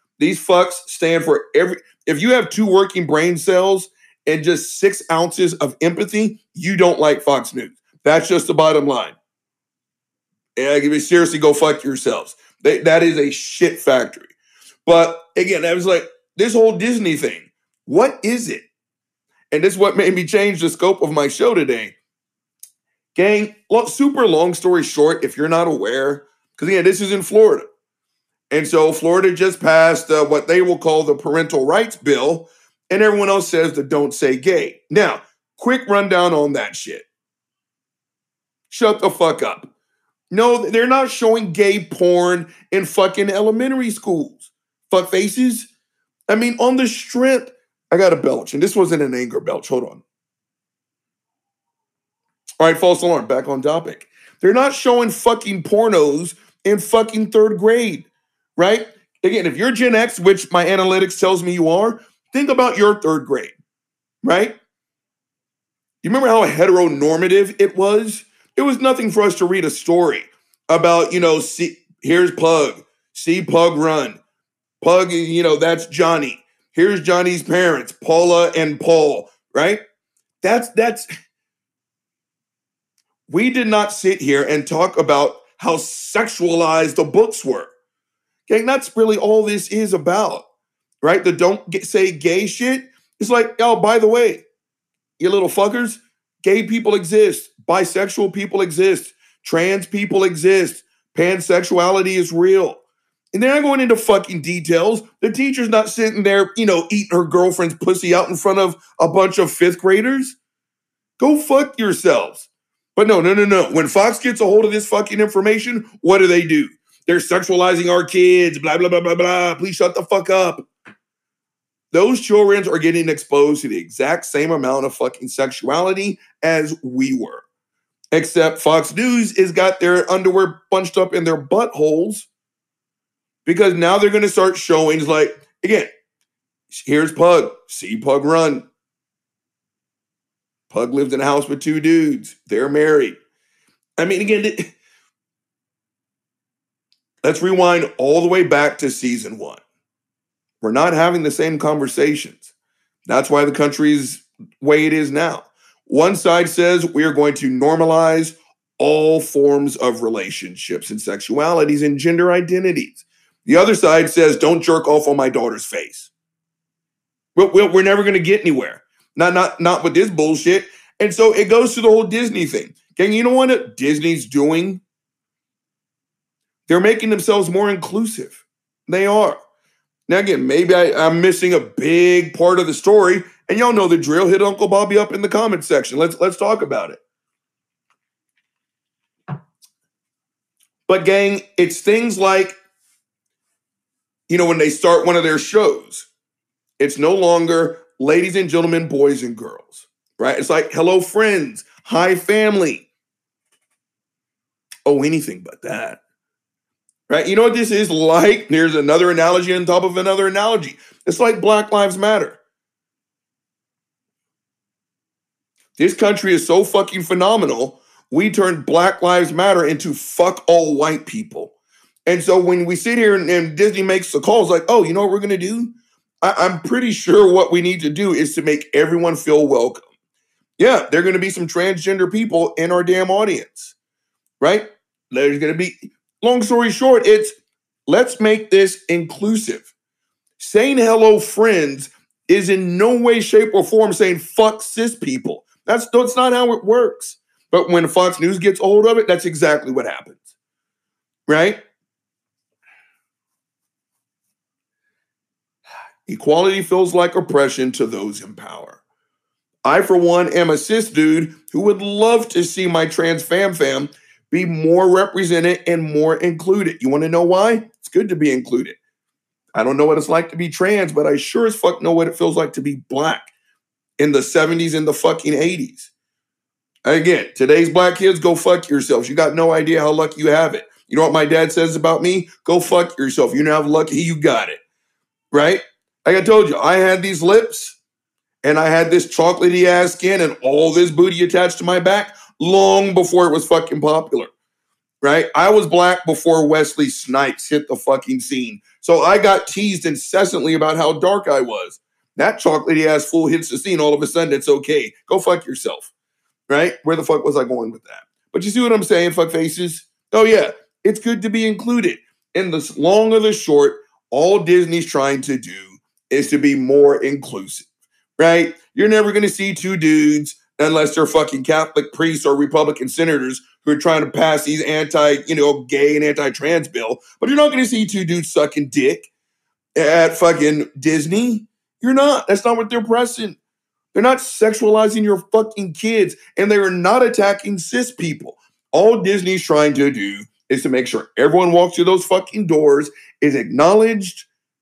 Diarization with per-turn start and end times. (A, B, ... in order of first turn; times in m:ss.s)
0:00.2-0:09.1 A
0:10.6-0:14.3 A
0:14.8-0:18.6 A
0:19.5-0:21.9 A
0:23.1-0:27.7 A
0:28.5-0:37.0 A
0:38.7-0:39.7 A
0:40.3-0:45.7 A
0:46.3-0:50.0 A
0:52.6-0:58.0 A
0:58.6-1:03.5 A
1:04.2-1:04.6 A
1:06.0-1:14.2 A
1:14.8-1:19.8 A
1:20.4-1:21.1 A
1:23.3-1:27.7 A
1:28.5-1:30.4 A
1:31.0-1:34.4 A
1:35.2-1:42.8 A
1:43.3-1:50.4 A
1:51.2-2:00.6 A
2:01.9-2:07.4 A
2:08.1-2:12.3 A
2:13.4-2:15.9 A
2:16.7-2:18.6 A
2:20.7-2:23.2 A
2:24.0-2:24.7 A
2:27.2-2:29.6 A
2:30.6-2:32.5 A
2:33.1-2:46.1 A
2:47.4-2:54.8 A
2:56.7-2:59.4 A
3:00.1-3:07.0 A
3:10.9-3:12.6 A
3:14.3-3:16.1 A
3:16.8-3:22.8 A
3:24.8-3:26.0 A
3:27.1-3:32.4 A
3:35.8-3:41.5 A
3:42.1-3:49.8 A
3:50.6-3:53.7 A
3:54.4-3:57.4 A
3:57.9-3:59.7 A
4:00.4-4:10.2 A
4:11.3-4:11.6 A
4:16.1-4:18.8 A
4:19.6-4:28.8 A
4:29.5-4:33.3 A
4:34.0-4:35.9 A
4:36.8-4:44.6 A
4:45.3-4:47.8 A
4:48.4-4:54.3 A
4:55.0-5:05.9 A
5:06.5-5:17.6 A
5:18.2-5:29.1 A
5:29.8-5:33.4 A
5:33.9-5:44.2 A